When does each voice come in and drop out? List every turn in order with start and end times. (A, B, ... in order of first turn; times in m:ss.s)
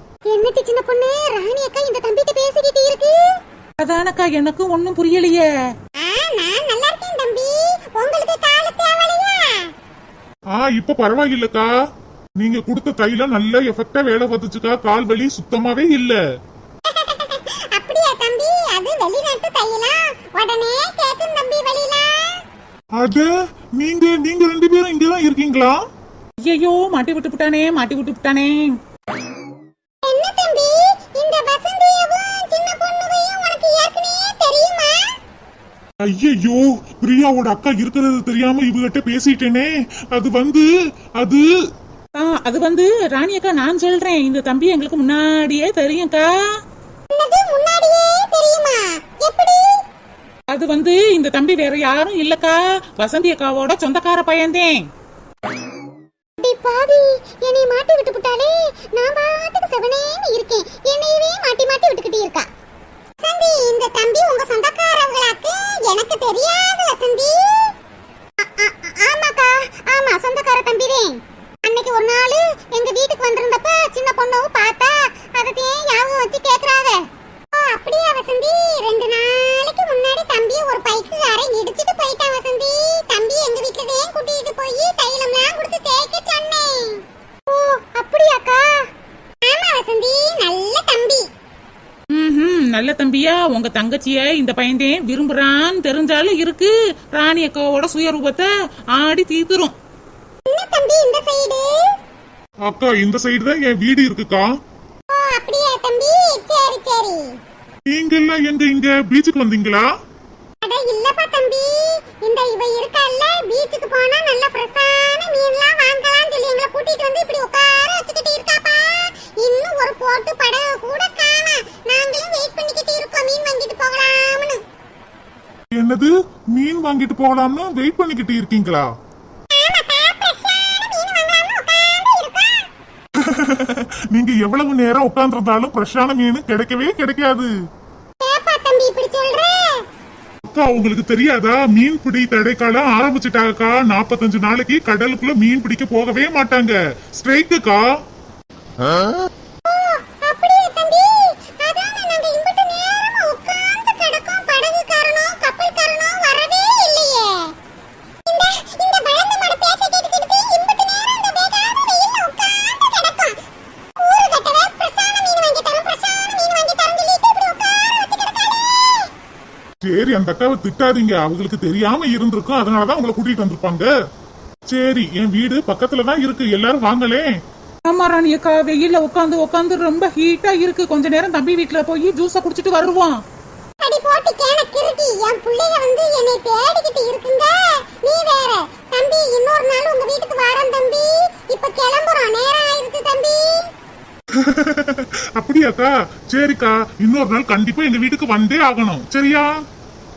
0:00.3-0:03.2 A
0:03.8-0:05.5 B
0:06.0-0:09.7 A
0:10.5-0:11.7 C
0:12.4-0:16.2 C
0:16.8-0:22.4 A
0:23.0-0:25.8 C
0:26.5-0:28.7 B
0:30.0-0:35.2 A
0:36.0-0:40.6 C
0:41.2-0:41.5 C
0:42.2-0:46.3 B
0:47.1-0:49.8 A
0:50.5-0:54.9 B
0:56.4-1:02.5 A
1:03.2-1:07.7 A
1:08.4-1:28.7 A
1:29.4-1:31.3 A
1:32.1-1:39.7 B
1:40.5-1:41.7 A
1:42.7-1:44.5 C
1:45.1-1:47.3 A
1:47.9-1:49.9 C
1:50.6-2:04.6 A
2:05.8-2:08.9 C
2:09.5-2:12.7 A
2:13.2-2:17.5 C
2:18.2-2:19.8 A
2:20.5-2:27.9 C
2:29.6-2:37.5 A
2:38.3-2:43.4 A
2:44.0-2:49.1 A
2:49.9-2:53.9 C
2:54.7-2:57.3 C
2:57.9-3:03.2 B
3:03.8-3:13.7 A
3:14.3-3:19.5 C